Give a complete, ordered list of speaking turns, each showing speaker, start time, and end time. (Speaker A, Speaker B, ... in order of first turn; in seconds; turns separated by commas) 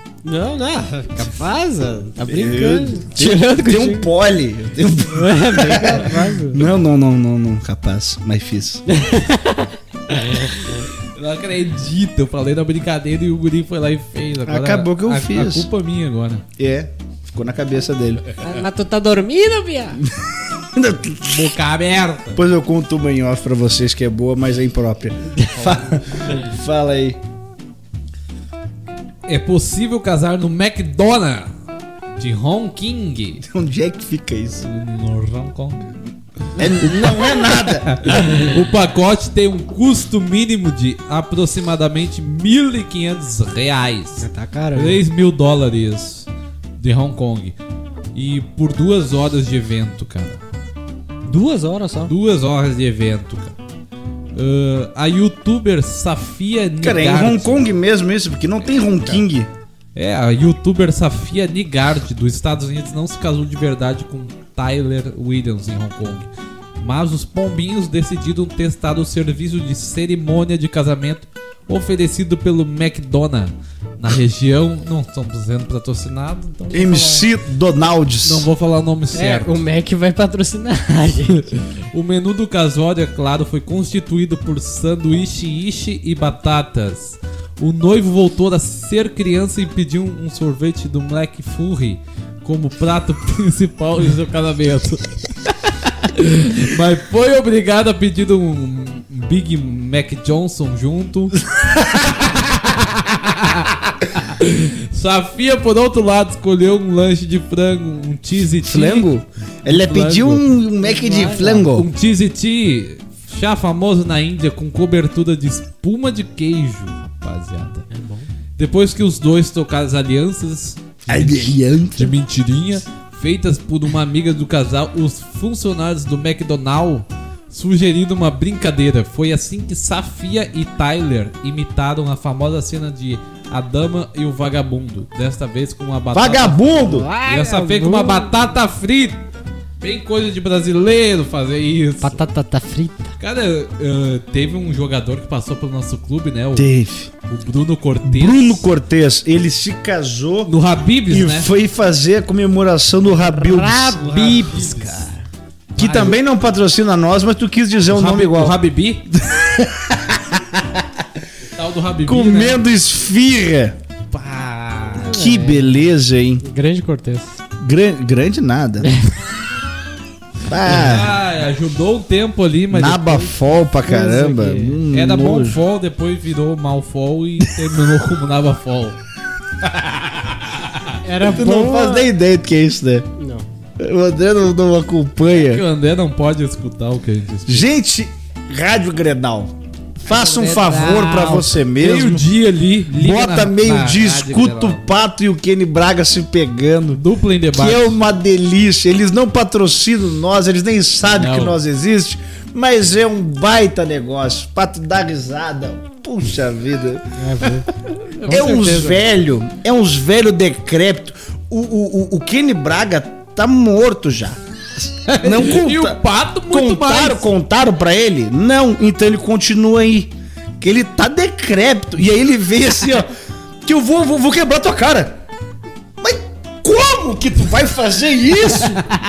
Speaker A: 0.2-4.1, Speaker B: 2.3-8.8, Speaker A: 5.0-6.7, Speaker A: 8.9-10.9, Speaker C: 10.2-16.4, Speaker B: 14.5-15.7, Speaker B: 16.6-18.3, Speaker A: 18.4-20.0, Speaker B: 20.2-21.5, Speaker C: 21.2-22.4, Speaker B: 22.4-27.2, Speaker A: 25.3-25.8, Speaker C: 29.3-31.5, Speaker C: 32.2-33.4, Speaker B: 33.4-34.7, Speaker C: 34.6-35.9, Speaker C: 36.5-46.3, Speaker B: 36.6-38.0, Speaker A: 44.2-45.0, Speaker C: 46.8-47.5, Speaker C: 48.1-50.4, Speaker A: 51.3-52.1, Speaker C: 52.1-53.5, Speaker C: 54.4-57.7, Speaker B: 56.8-59.5, Speaker C: 58.6-59.2, Speaker C: 60.0-66.3, Speaker C: 66.8-77.3, Speaker B: 76.7-78.5, Speaker C: 78.2-79.6, Speaker A: 79.1-81.5, Speaker C: 81.9-109.1, Speaker B: 108.6-111.9, Speaker C: 109.7-110.5, Speaker A: 110.8-111.7, Speaker C: 111.7-117.9, Speaker A: 117.9-118.3, Speaker C: 118.6-139.2, Speaker B: 121.1-122.2, Speaker B: 136.1-137.1, Speaker A: 136.8-138.3, Speaker C: 139.8-142.2, Speaker A: 142.0-143.1, Speaker C: 143.2-146.7, Speaker B: 146.6-147.1, Speaker C: 147.3-148.7, Speaker B: 148.0-150.5, Speaker C: 150.5-151.5, Speaker B: 151.1-154.0, Speaker A: 153.2-155.2, Speaker C: 154.0-155.1, Speaker C: 155.8-156.2, Speaker B: 155.8-158.6, Speaker C: 157.9-159.0, Speaker B: 159.1-161.0, Speaker C: 161.5-162.7, Speaker B: 162.1-163.8, Speaker C: 164.1-165.2, Speaker A: 165.0-165.8, Speaker B: 165.0-166.4, Speaker A: 166.4-167.4, Speaker B: 167.6-168.9, Speaker A: 168.8-169.1, Speaker B: 170.5-171.2, Speaker C: 170.7-173.4, Speaker B: 172.7-175.6, Speaker A: 173.8-174.8, Speaker C: 174.9-179.0, Speaker C: 179.6-180.9, Speaker A: 181.0-182.1, Speaker B: 181.3-183.1, Speaker A: 183.2-183.5, Speaker B: 183.8-185.6, Speaker C: 185.3-187.7, Speaker B: 187.5-189.5, Speaker B: 190.1-192.2, Speaker A: 190.1-191.5, Speaker C: 191.8-194.8, Speaker B: 192.9-197.0, Speaker C: 197.0-198.0, Speaker B: 197.5-207.1, Speaker C: 201.2-201.6, Speaker A: 207.2-207.7, Speaker C: 208.2-208.7, Speaker A: 208.2-209.0, Speaker B: 208.2-223.1, Speaker C: 215.1-217.3, Speaker B: 223.6-225.2, Speaker B: 226.0-228.8